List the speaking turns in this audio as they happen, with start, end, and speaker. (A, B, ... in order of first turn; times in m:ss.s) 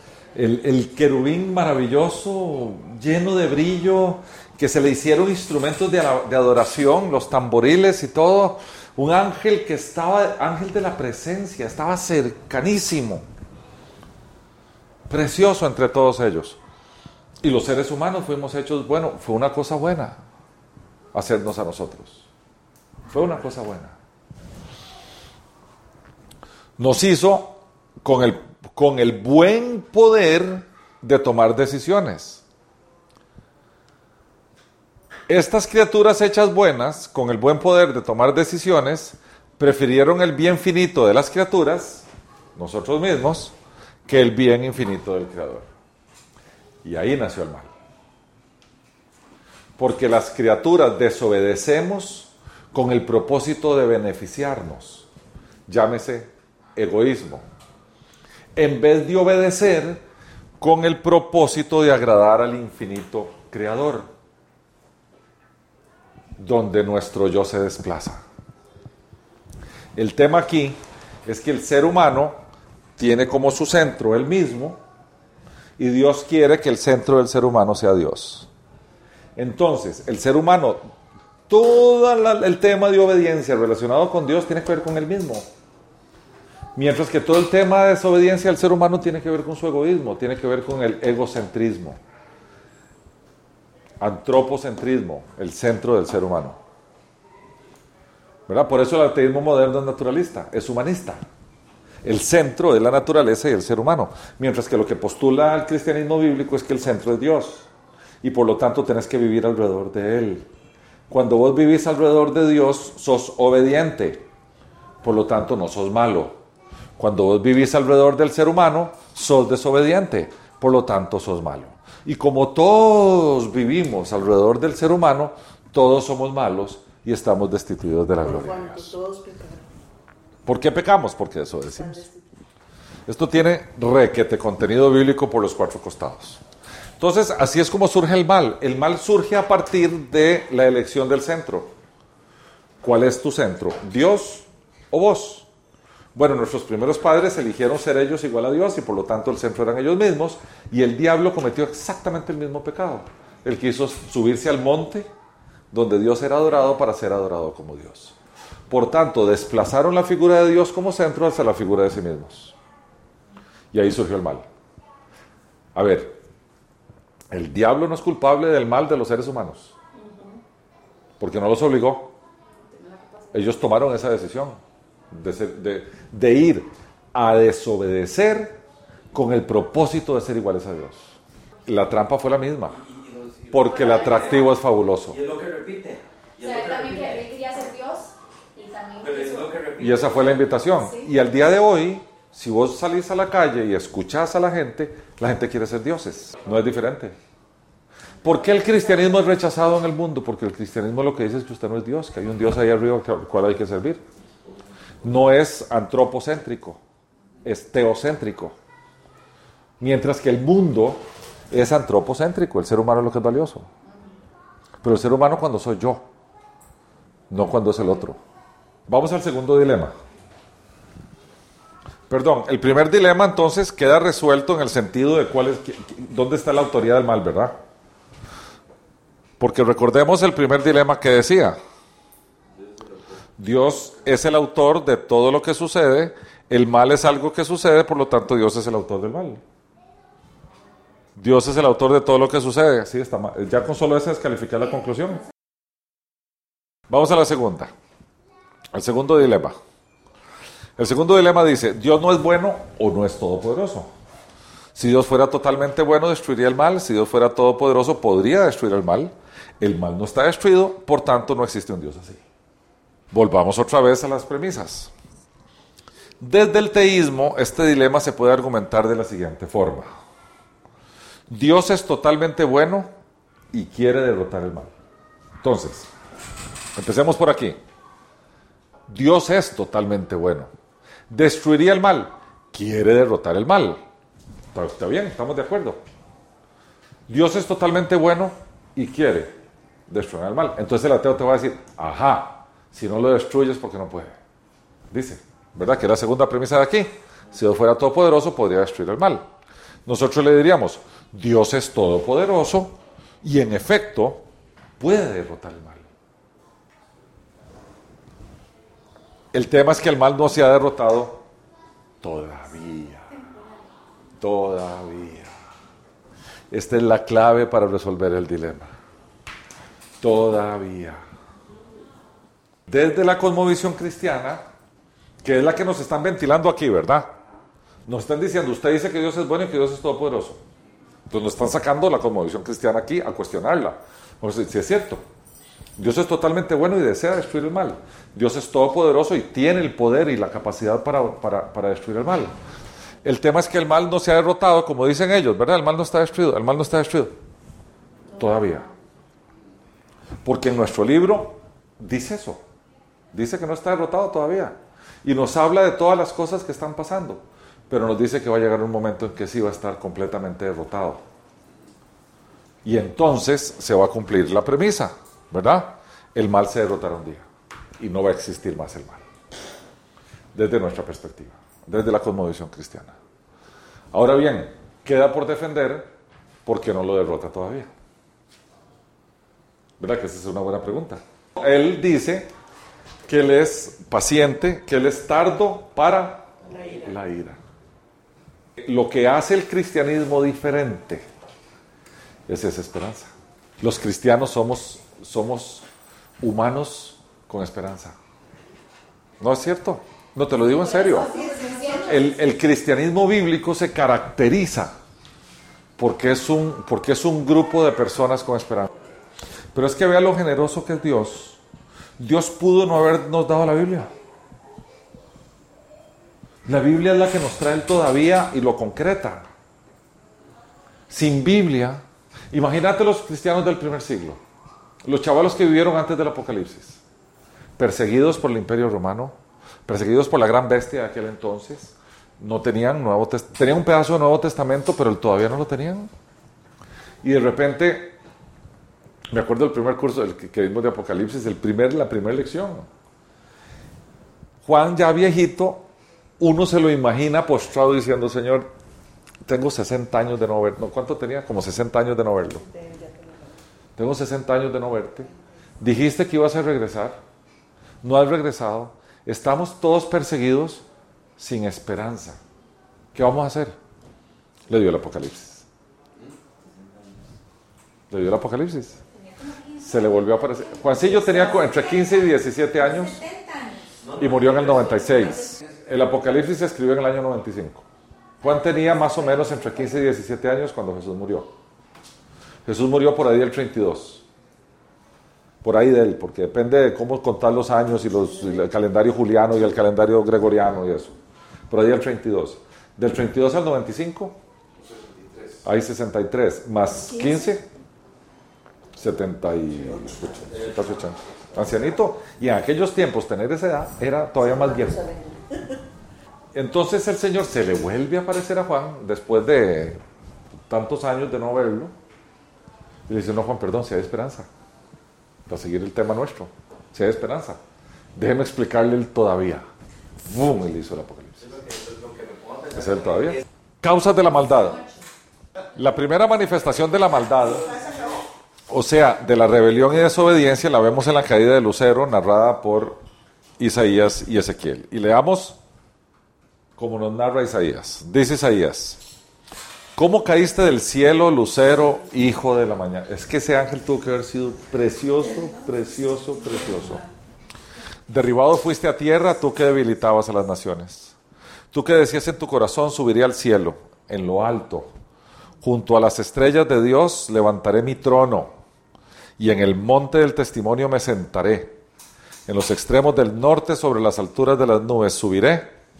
0:00.3-0:13.2 A
0:15.1-0:16.6 A
0:17.4-0:20.2 A
0:21.1-0:22.3 A
0:23.1-0:24.0 A
0:26.8-0:32.4 A
0:35.3-0:43.5 A
0:44.1-0:45.7 A
0:46.8-0:47.7 A
0:49.8-0:55.1 A
0:55.7-0:57.4 A
0:58.6-1:00.0 A
1:00.6-1:04.1 A
1:06.4-1:08.2 A
1:10.0-1:12.4 A
1:13.0-1:14.8 A
1:15.8-1:18.5 A
1:19.4-1:20.8 A
1:21.5-1:25.5 A
1:26.8-1:32.0 A
1:34.0-1:36.6 A
1:38.5-1:41.2 A
1:42.0-1:47.7 A
1:48.2-1:50.5 A
1:51.1-1:54.2 A
1:55.0-1:56.4 A
1:57.0-2:08.9 A
2:08.2-2:09.7 B
2:10.5-2:12.0 A
2:11.8-2:12.2 B
2:13.1-2:16.4 A
2:17.0-2:21.7 A
2:22.8-2:25.5 A
2:26.2-2:35.1 A
2:35.7-2:38.2 A
2:38.7-2:42.5 A
2:43.7-2:44.4 A
2:45.8-2:46.2 A
2:47.3-2:49.7 A
2:49.9-2:50.4 B
2:51.2-2:52.2 A
2:52.7-2:53.6 B
2:53.3-2:54.6 A
2:55.1-2:58.6 A
2:59.1-3:01.1 A
3:01.7-3:02.8 A
3:02.8-3:04.3 C
3:03.5-3:05.2 A
3:05.1-3:07.2 C
3:06.4-3:09.5 B
3:09.0-3:10.1 C
3:09.8-3:17.2 A
3:18.2-3:24.0 A
3:25.0-3:26.8 A
3:27.4-3:28.6 A
3:29.8-3:33.7 A
3:34.8-3:36.0 A
3:37.3-3:38.2 A
3:38.9-3:40.0 A
3:42.1-3:47.6 A
3:49.4-3:51.6 A
3:53.4-3:59.4 A
4:01.2-4:05.2 A
4:06.9-4:07.7 A
4:08.7-4:09.6 A
4:10.8-4:13.9 A
4:14.8-4:22.2 A
4:23.1-4:24.9 A
4:26.2-4:29.9 A
4:31.3-4:32.9 A
4:33.5-4:34.7 A
4:35.4-4:35.9 A
4:36.8-4:37.6 A
4:38.9-4:40.5 A
4:41.1-4:43.8 A
4:44.5-4:45.8 A
4:47.1-4:49.3 A
4:49.9-4:54.2 A
4:54.9-4:59.2 A
4:59.9-5:04.2 A
5:04.8-5:05.8 A
5:09.3-5:11.2 A
5:12.0-5:13.1 A
5:13.1-5:13.7 B
5:14.2-5:15.3 A
5:16.5-5:18.7 A
5:20.0-5:21.0 A
5:22.7-5:24.4 A
5:25.2-5:27.1 A
5:27.9-5:30.4 A
5:31.1-5:35.0 A
5:35.8-5:42.3 A
5:43.0-5:47.2 A
5:48.1-5:48.7 A
5:50.2-5:52.4 A
5:53.1-6:01.0 A
6:02.6-6:07.2 A
6:07.8-6:09.0 A
6:10.3-6:13.0 A
6:13.9-6:15.9 A
6:16.5-6:17.7 A
6:19.8-6:22.3 A
6:23.1-6:27.4 A
6:28.6-6:31.0 A
6:32.3-6:35.6 A
6:36.2-6:38.0 A
6:39.2-6:41.2 A
6:40.6-6:42.1 B
6:41.7-6:44.7 A
6:45.8-6:48.7 A
6:49.5-6:51.4 A
6:52.0-6:53.9 A
6:56.5-6:59.2 A
7:00.9-7:04.2 A
7:04.8-7:06.8 A
7:07.6-7:09.2 A
7:09.7-7:15.9 A
7:17.0-7:18.0 A
7:19.1-7:22.7 A
7:24.4-7:25.7 A
7:26.2-7:28.5 A
7:29.3-7:32.4 A
7:32.4-7:33.4 B
7:33.8-7:35.1 A
7:35.6-7:37.0 A
7:37.8-7:40.6 A
7:41.2-7:42.2 A
7:42.9-7:43.6 A
7:44.5-7:45.4 A
7:47.9-7:48.8 A
7:48.9-7:51.9 B
7:49.6-7:53.0 A
7:52.5-7:53.7 B
7:53.9-7:57.6 A
7:58.2-8:01.3 A
8:02.4-8:04.0 A
8:05.4-8:10.9 A
8:11.5-8:14.2 A
8:15.4-8:17.4 A
8:18.8-8:24.9 A
8:24.2-8:25.4 B
8:26.4-8:29.8 A
8:30.5-8:31.7 A
8:32.9-8:34.3 A
8:35.3-8:37.4 A
8:38.0-8:39.5 A
8:40.0-8:41.3 A
8:41.7-8:42.2 C
8:42.5-8:44.6 A
8:44.5-8:44.8 B
8:45.6-8:47.6 A
8:48.5-8:52.8 A
8:53.4-8:55.4 A
8:56.6-8:58.8 A
8:59.8-9:06.8 A
9:07.9-9:11.0 A
9:11.5-9:14.7 A
9:15.4-9:18.3 A
9:19.2-9:21.6 A
9:22.3-9:25.5 A